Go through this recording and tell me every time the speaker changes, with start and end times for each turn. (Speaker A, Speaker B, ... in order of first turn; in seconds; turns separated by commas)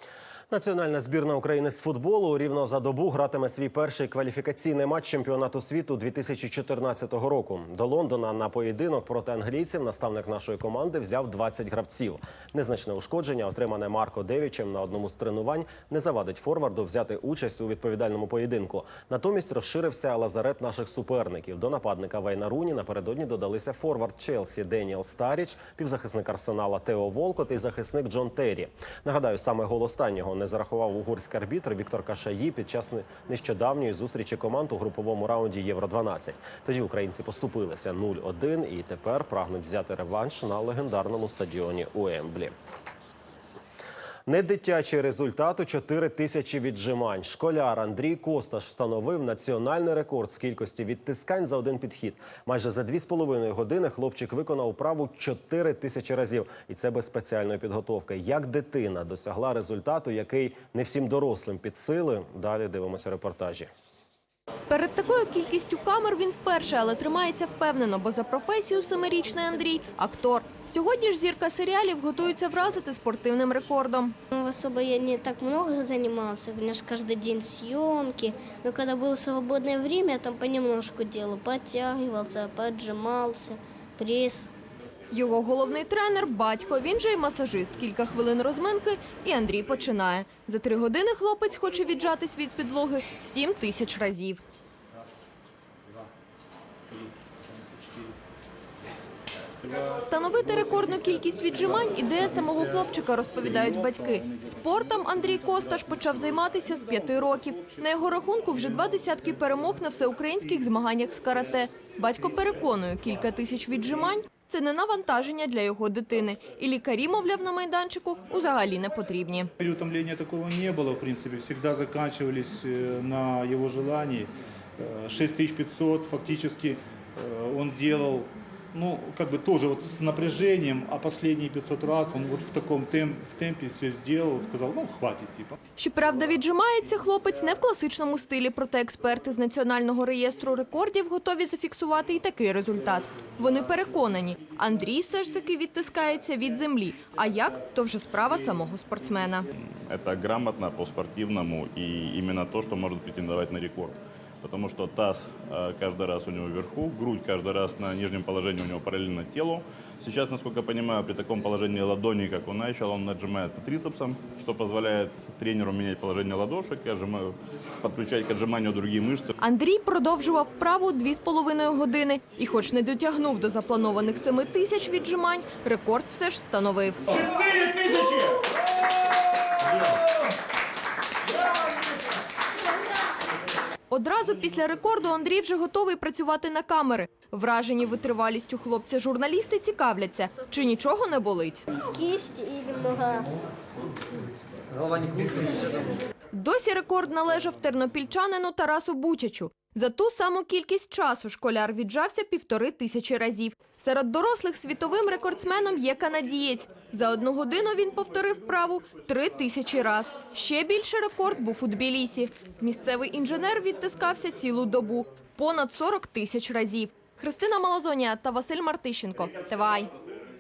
Speaker A: 0.5-42.5, Speaker A: 44.2-63.7, Speaker B: 64.7-74.1, Speaker C: 74.3-84.5, Speaker B: 85.1-94.4, Speaker D: 99.7-107.8, Speaker B: 99.9-119.5, Speaker D: 119.6-135.6, Speaker B: 135.8-149.5, Speaker E: 149.7-167.3, Speaker E: 167.8-169.3, Speaker B: 169.4-177.0, Speaker B: 183.9-191.6, Speaker C: 191.9-193.2, Speaker B: 196.3-219.9